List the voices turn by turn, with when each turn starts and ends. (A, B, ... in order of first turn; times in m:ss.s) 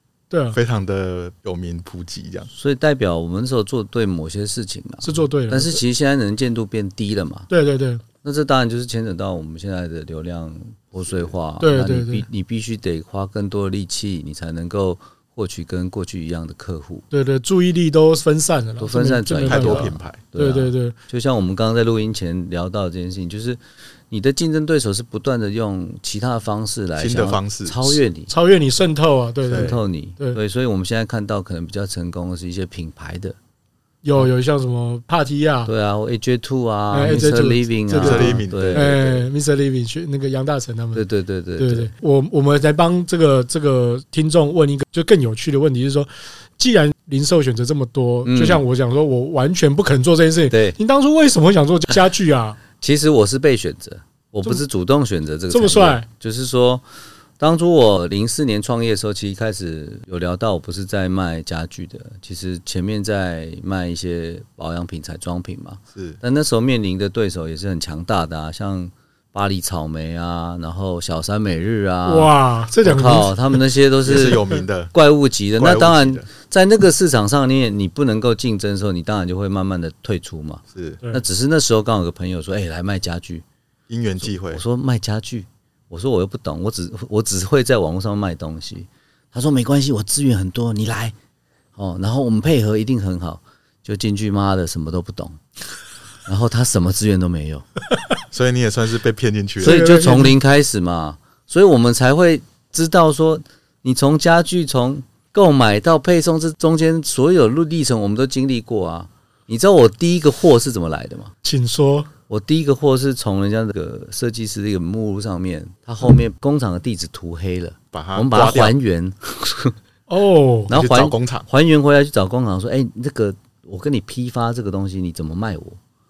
0:00.3-0:00.6 A
0:00.5-0:02.5 B
0:02.5-0:07.5 C
0:05.0-0:05.8 A
0:07.5-0:08.0 A
0:08.2-0:17.0 C
0:11.0-0:11.3 B
0:11.6-0:12.3 A
0:17.1-0:21.0 A
0:18.8-0:28.3 C
0:19.4-0:20.2 B
0:27.0-0:28.0 B
0:28.3-0:30.4 A
0:29.5-0:29.8 B
0:29.5-0:33.4 C
0:34.0-0:35.7 A
0:35.6-0:39.2 C
0:36.9-0:41.0 A
0:38.0-0:39.0 B
0:40.9-0:41.9 C
0:41.6-0:52.6 A
0:48.2-0:48.6 C
0:50.5-0:50.8 C
0:52.8-0:56.8 C
0:55.5-0:56.1 A
0:57.4-1:14.4 C
1:05.9-1:06.2 B
1:12.1-1:13.6 A
1:14.0-1:14.9 B
1:14.9-1:23.4 C
1:15.6-1:16.3 B
1:20.7-1:21.0 B
1:23.9-1:24.6 B
1:24.2-1:31.2 C
1:31.8-1:35.4 C
1:36.3-1:37.7 C
1:38.3-1:39.8 B
1:39.6-1:51.3 C
1:39.6-1:40.4 A
1:51.4-1:52.1 A
1:52.3-1:59.8 C
1:57.9-1:58.8 B
2:00.1-2:00.7 A
2:00.7-2:01.5 B
2:00.7-2:05.8 C